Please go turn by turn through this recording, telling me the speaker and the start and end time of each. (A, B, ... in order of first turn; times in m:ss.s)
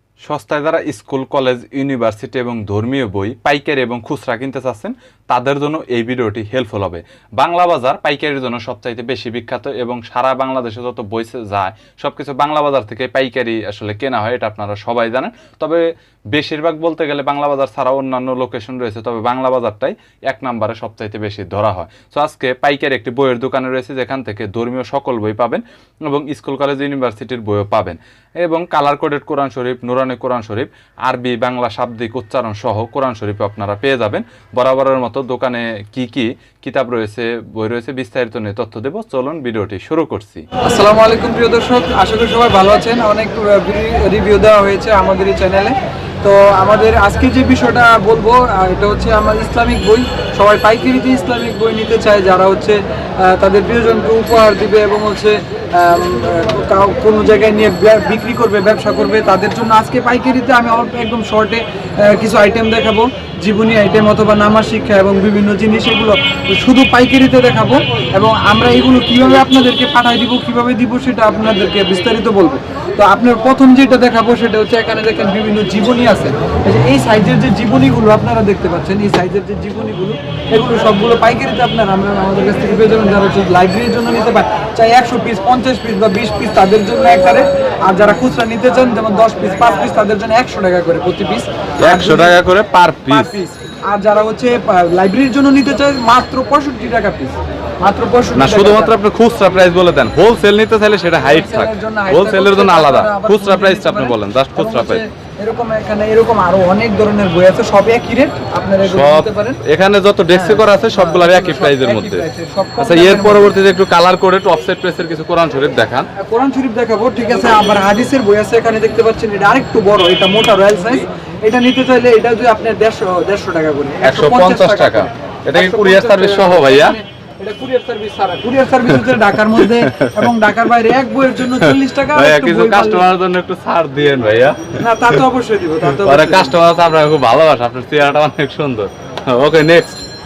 0:00.2-0:15.8 A
0:16.3-0:40.4 A
0:40.6-1:32.4 B
1:31.8-1:33.3 A
1:33.1-1:38.9 B
1:38.3-1:45.0 A
1:41.2-1:49.6 B
1:48.8-1:52.2 A
1:50.3-1:53.5 B
1:52.8-1:56.1 A
1:56.2-2:13.0 B
2:04.0-2:07.0 A
2:08.8-2:10.4 A
2:11.6-2:15.1 A
2:14.8-2:16.5 B
2:15.9-2:20.0 A